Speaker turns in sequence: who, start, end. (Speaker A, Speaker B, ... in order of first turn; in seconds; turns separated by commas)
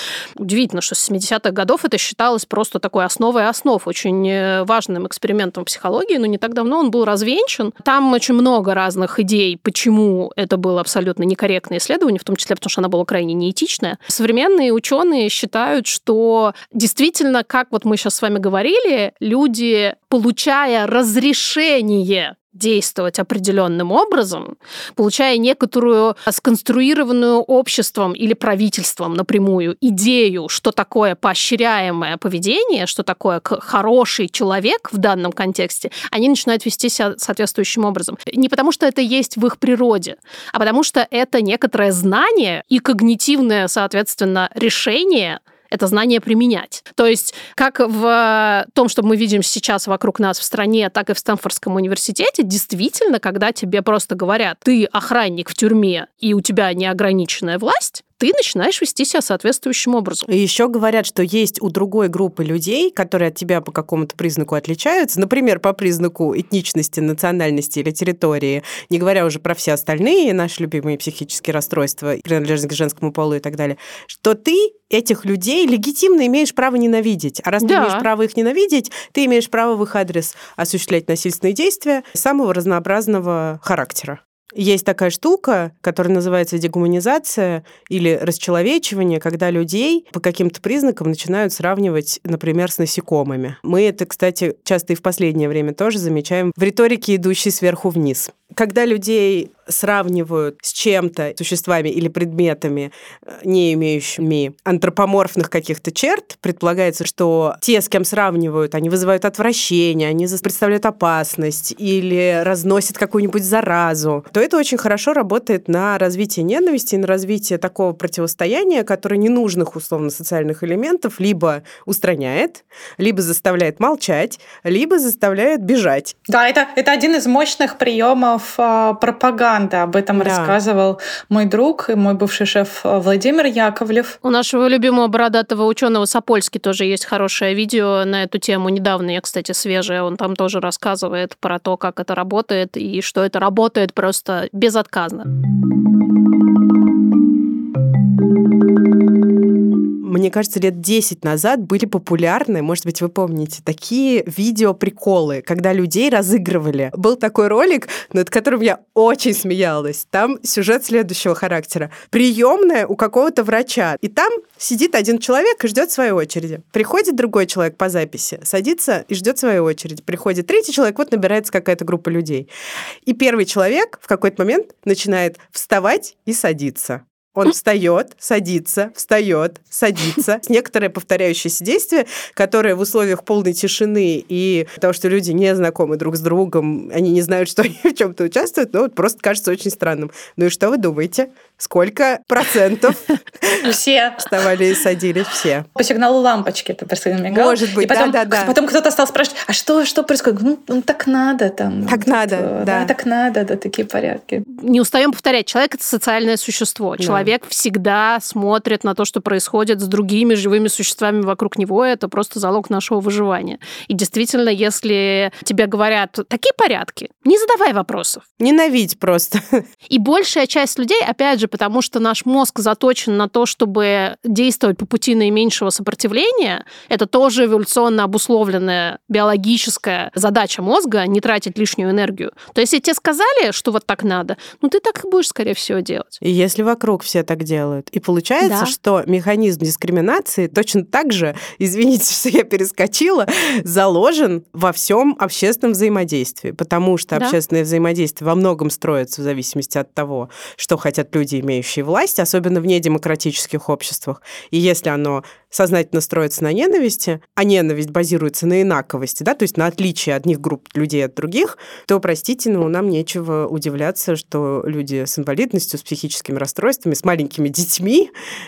Speaker A: 0.4-60.3, Speaker B: 60.3-126.2, Speaker A: 77.6-78.1, Speaker C: 126.3-134.2, Speaker B: 130.2-130.6, Speaker A: 134.2-145.3, Speaker B: 150.0-172.5, Speaker B: 173.1-193.7, Speaker C: 193.6-194.6, Speaker B: 194.3-195.7, Speaker C: 195.8-204.4, Speaker B: 197.3-198.6, Speaker B: 201.8-202.9, Speaker A: 204.5-218.2, Speaker B: 207.0-207.3, Speaker B: 218.4-219.6, Speaker A: 219.9-236.2, Speaker B: 236.2-268.1, Speaker A: 238.4-238.8